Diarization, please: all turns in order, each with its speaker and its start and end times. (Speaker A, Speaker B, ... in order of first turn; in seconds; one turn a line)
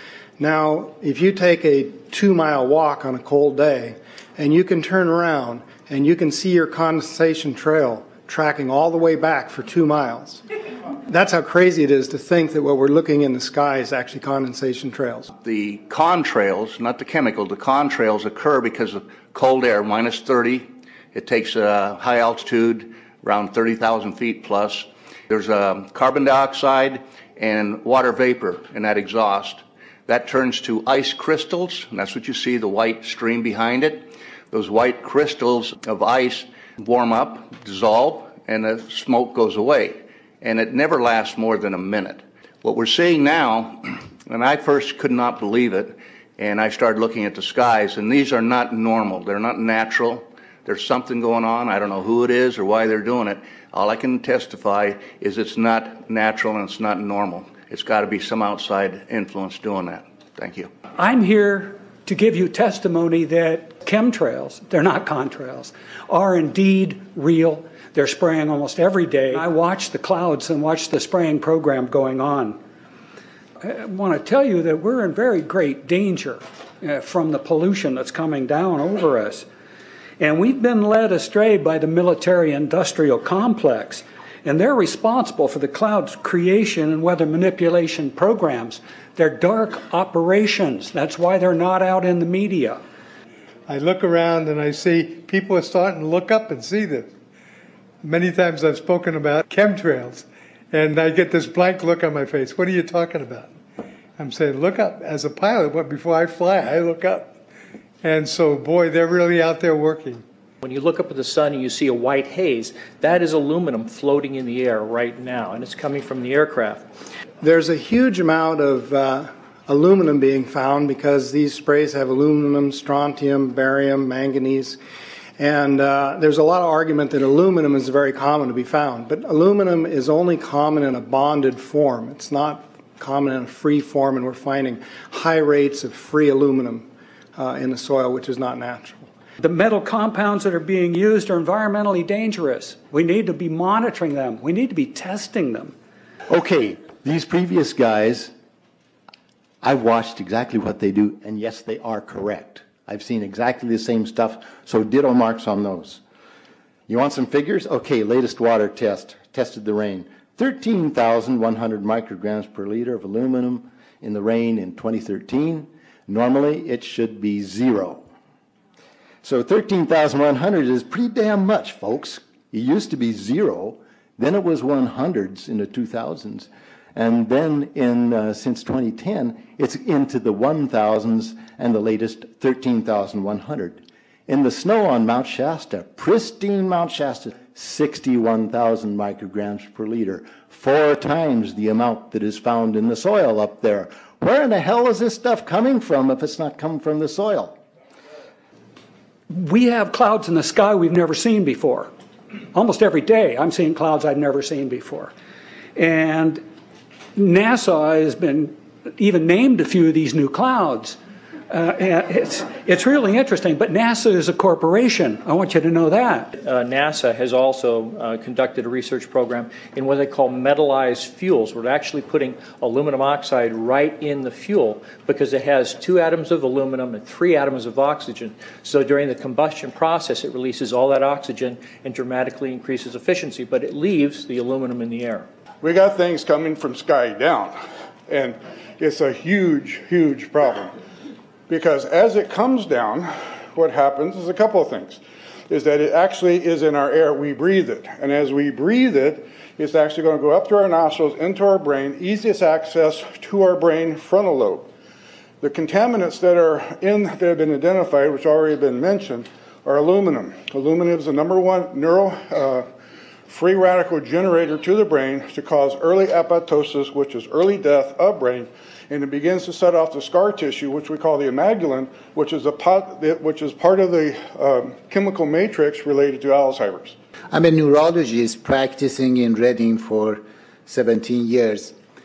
Speaker A: 0.4-10.4
Speaker A: 11.1-15.3
Speaker B: 15.4-60.7
Speaker C: 61.0-72.6
Speaker C: 73.6-79.5
Speaker C: 80.2-92.8
Speaker D: 93.7-97.1
Speaker D: 98.0-103.5
Speaker D: 104.2-107.4
Speaker D: 108.0-110.2
Speaker E: 110.6-116.9
Speaker A: 117.4-124.8
Speaker A: 125.4-139.1
Speaker C: 139.4-145.7
Speaker F: 146.3-148.3
Speaker F: 149.6-156.0
Speaker F: 156.9-168.0
Speaker F: 169.2-197.6
Speaker C: 199.3-201.9
Speaker C: 202.5-205.1
Speaker C: 205.8-206.4
Speaker C: 207.2-211.0
Speaker C: 211.5-216.3
Speaker E: 216.4-235.3
Speaker G: 235.6-237.5
Speaker G: 238.1-240.7
Speaker G: 241.5-254.7
Speaker G: 255.4-262.6
Speaker G: 263.3-277.0
Speaker H: 277.3-281.8